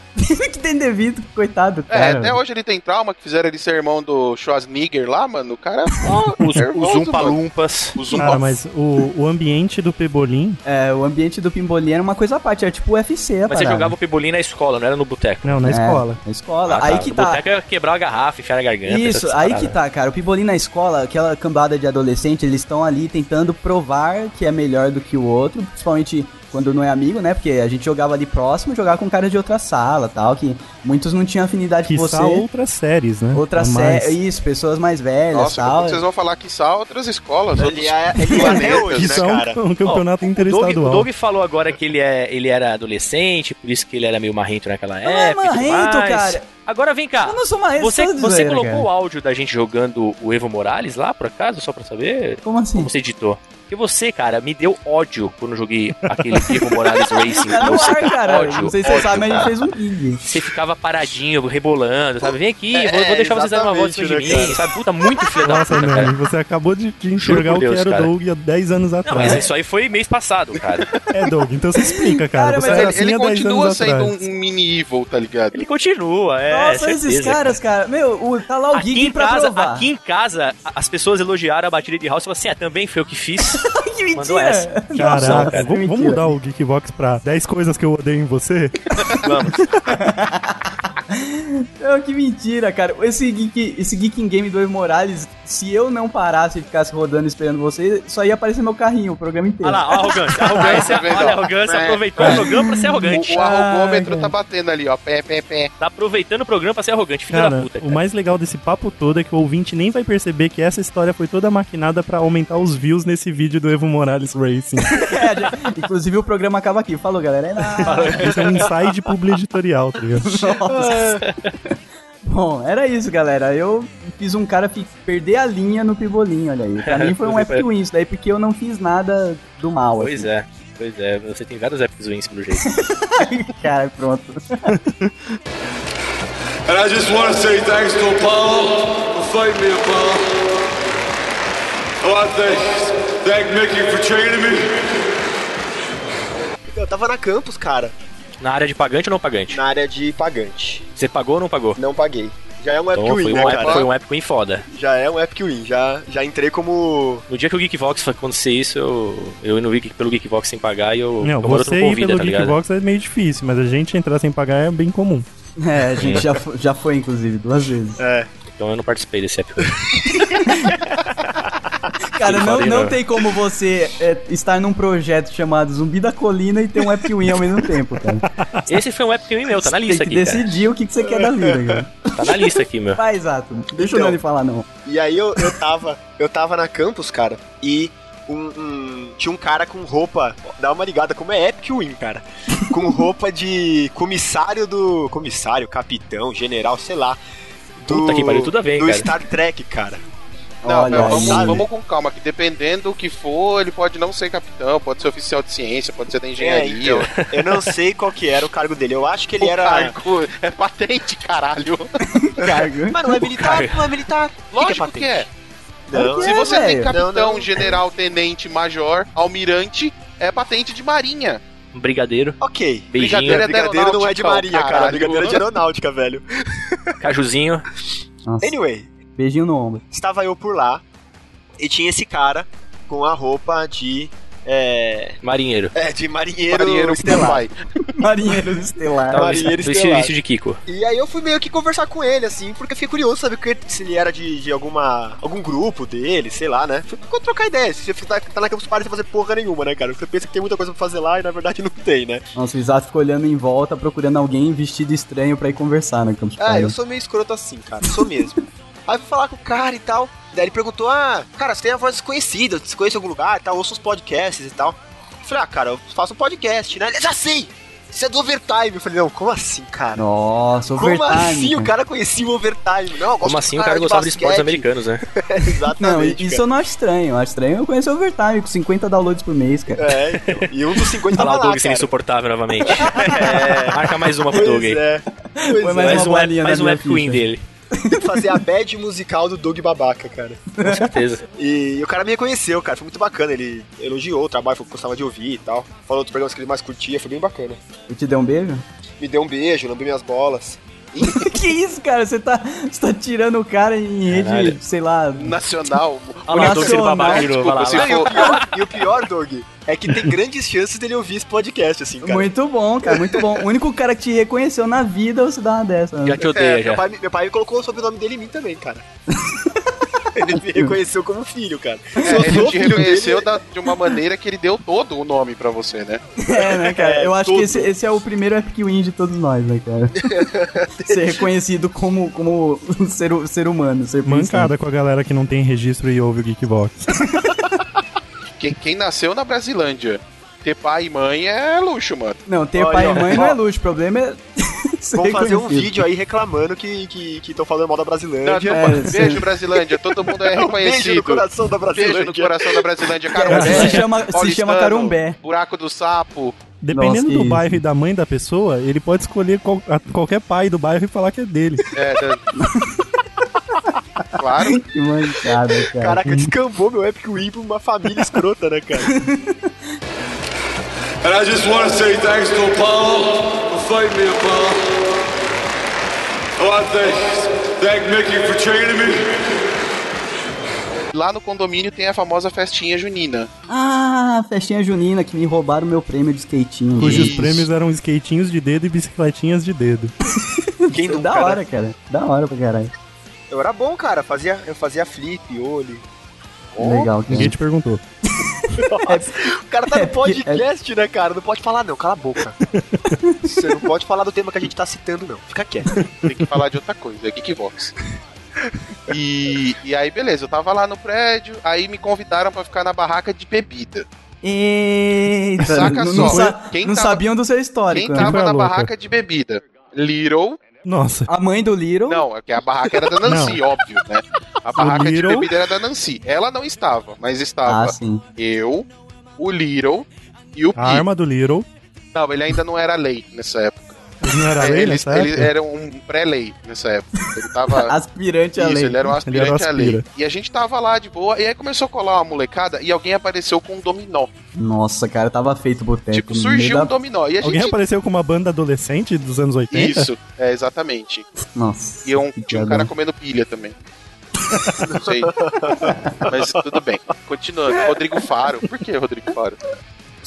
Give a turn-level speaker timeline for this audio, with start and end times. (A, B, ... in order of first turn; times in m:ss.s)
0:00.2-0:02.4 A
0:01.9-0:07.4 B
0:06.3-0:08.2 C
0:08.0-0:08.6 B
0:08.1-0:10.6 D
0:10.6-0:13.9 A
0:13.5-0:15.7 C
0:15.4-0:16.2 D
0:15.7-0:17.4 A
0:16.7-0:19.8 C
0:18.8-0:32.4 A
0:31.8-0:34.2 D
0:33.3-0:36.0 A
0:35.3-0:39.3 B
0:37.5-0:39.6 E
0:38.3-0:38.6 A
0:38.8-0:41.1 D
0:39.8-0:59.5 C
0:45.0-0:46.4 A
0:47.2-0:48.8 A
0:52.4-0:52.9 A
0:56.1-0:56.7 D
0:57.3-1:00.2 A
1:00.2-1:06.1 C
1:02.7-1:04.7 E
1:05.4-1:09.4 D
1:07.2-1:08.1 C
1:09.0-1:10.9 C
1:11.1-1:14.2 D
1:11.8-1:13.0 A
1:12.6-1:15.6 B
1:15.5-1:17.6 C
1:16.5-1:19.9 A
1:18.7-1:25.7 C
1:23.5-1:26.3 A
1:25.0-1:29.0 D
1:29.0-1:29.6 C
1:29.9-1:40.1 A
1:39.6-1:43.4 C
1:40.4-1:42.4 B
1:42.2-1:42.4 D
1:42.2-1:44.3 A
1:43.1-1:45.7 B
1:45.8-1:48.0 C
1:47.3-1:55.1 D
1:54.9-1:58.3 A
1:57.8-1:58.7 C
1:58.1-2:00.2 D
2:00.2-2:10.3 A
2:00.8-2:01.5 C
2:06.8-2:07.6 C
2:10.0-2:12.7 C
2:12.6-2:14.7 A
2:14.7-2:15.4 D
2:16.7-2:20.4 F
2:22.0-2:25.1 F
2:26.7-2:27.9 E
2:28.4-2:29.6 C
2:29.5-2:30.8 E
2:31.0-2:31.8 C
2:31.8-2:33.9 E
2:32.9-2:34.6 C
2:33.3-2:33.9 B
2:34.7-2:37.2 E
2:37.3-2:42.6 C
2:41.2-2:45.2 D
2:45.6-2:48.0 A
2:46.0-2:46.3 C
2:48.0-2:48.3 E
2:48.5-2:49.8 C
2:49.6-2:50.2 E
2:50.2-2:50.8 A
2:52.1-2:58.2 A
2:52.2-2:53.0 C
2:58.4-2:58.7 D
2:58.7-3:00.7 C
2:59.6-3:04.7 A
3:01.0-3:01.8 E
3:02.1-3:03.0 C
3:03.7-3:04.2 E
3:04.8-3:17.2 E
3:17.8-3:20.0 E
3:17.9-3:19.1 C
3:20.6-3:21.6 A
3:20.6-3:27.2 B
3:20.9-3:21.6 E
3:26.4-3:29.9 E
3:27.2-3:27.7 C
3:29.4-3:31.9 B
3:32.0-3:33.6 A
3:32.9-3:35.2 E
3:33.3-3:33.9 C
3:34.5-3:35.3 B
3:35.9-3:37.8 E
3:35.9-3:37.0 A
3:36.0-3:41.4 B
3:41.7-3:42.4 C
3:42.4-3:46.9 E
3:42.9-3:43.4 C
3:42.9-3:45.4 B
3:47.0-3:47.6 C
3:48.3-3:48.6 A
3:48.4-3:48.9 E
3:49.2-3:49.8 A
3:49.9-3:50.8 E
3:51.6-3:55.2 E
3:55.2-3:55.7 C
3:55.7-3:57.4 E
3:56.5-3:57.5 B
3:57.0-3:57.4 A
3:58.0-3:59.5 A
3:59.1-4:00.6 C
3:59.1-4:00.1 E
4:00.7-4:12.2 E
4:12.4-4:16.7 A
4:16.4-4:30.0 E
4:30.0-4:31.7 A
4:30.7-4:36.4 E
4:33.2-4:35.0 C
4:35.8-4:40.0 A
4:39.8-4:41.9 E
4:40.1-4:40.5 C
4:41.0-4:44.8 C
4:42.7-4:46.1 E
4:45.3-4:48.4 A
4:45.8-4:47.4 C
4:47.9-4:50.4 E
4:50.6-4:51.0 A
4:50.6-4:51.2 C
4:51.4-4:57.6 E
4:57.9-4:58.6 A
4:59.0-5:00.6 E
5:00.9-5:01.3 B
5:01.0-5:05.4 A
5:04.1-5:04.6 C
5:05.2-5:08.4 B
5:06.3-5:08.9 C
5:06.3-5:07.3 A
5:06.4-5:07.0 E
5:07.5-5:12.3 E
5:12.0-5:16.2 A
5:12.9-5:13.4 E
5:16.0-5:16.8 C
5:16.3-5:18.8 E
5:19.1-5:19.8 A
5:20.1-5:23.3 E
5:22.0-5:22.9 A
5:22.0-5:26.0 B
5:26.2-5:30.3 A
5:26.3-5:27.7 E
5:30.0-5:31.3 E
5:30.8-5:34.5 A
5:34.0-5:36.7 D
5:37.0-5:37.5 A
5:38.4-5:42.2 B
5:42.3-5:45.8 A
5:42.5-5:43.4 E
5:45.0-5:53.5 E
5:48.2-5:56.4 B
5:48.5-5:49.2 A
5:53.1-5:55.2 A
5:53.3-5:53.8 D
5:56.6-6:01.6 D
5:56.7-5:57.6 A
6:01.7-6:02.3 B
6:02.4-6:02.9 A
6:04.2-6:04.6 B
6:04.4-6:06.0 A
6:05.6-6:08.9 E
6:06.0-6:06.3 D
6:08.8-6:09.4 A
6:11.0-6:15.0 F
6:16.4-6:19.6 F
6:20.9-6:23.3 B
6:23.5-6:27.2 A
6:26.8-6:27.5 B
6:26.8-6:29.9 D
6:30.2-6:32.7 A
6:30.7-6:31.4 E
6:33.3-6:35.8 E
6:36.6-6:36.9 B
6:36.6-6:37.3 A
6:37.1-6:37.8 D
6:38.1-6:40.4 A
6:38.5-6:42.4 E
6:42.4-6:43.0 D
6:42.9-6:43.3 A
6:43.2-6:45.8 E
6:46.0-6:47.7 B
6:48.9-6:53.8 B
6:54.2-6:58.1 A
6:55.4-6:57.0 B
6:55.8-6:56.4 D
6:57.7-7:00.4 B
6:58.0-6:58.7 D
7:00.6-7:01.1 D
7:01.1-7:02.0 A
7:01.9-7:10.8 B
7:03.0-7:03.4 D
7:04.6-7:05.3 D
7:07.4-7:08.0 A
7:10.6-7:11.4 D
7:11.9-7:17.7 B
7:14.0-7:15.3 D
7:17.5-7:18.9 A
7:18.4-7:24.1 B
7:19.0-7:19.8 D
7:24.4-7:26.7 A
7:25.9-7:27.5 B
7:27.2-7:29.9 D
7:29.5-7:31.0 B
7:31.4-7:32.7 A
7:31.8-7:33.5 B
7:34.6-7:36.3 E
7:34.7-7:35.1 B
7:35.6-7:35.9 A
7:36.1-7:39.4 B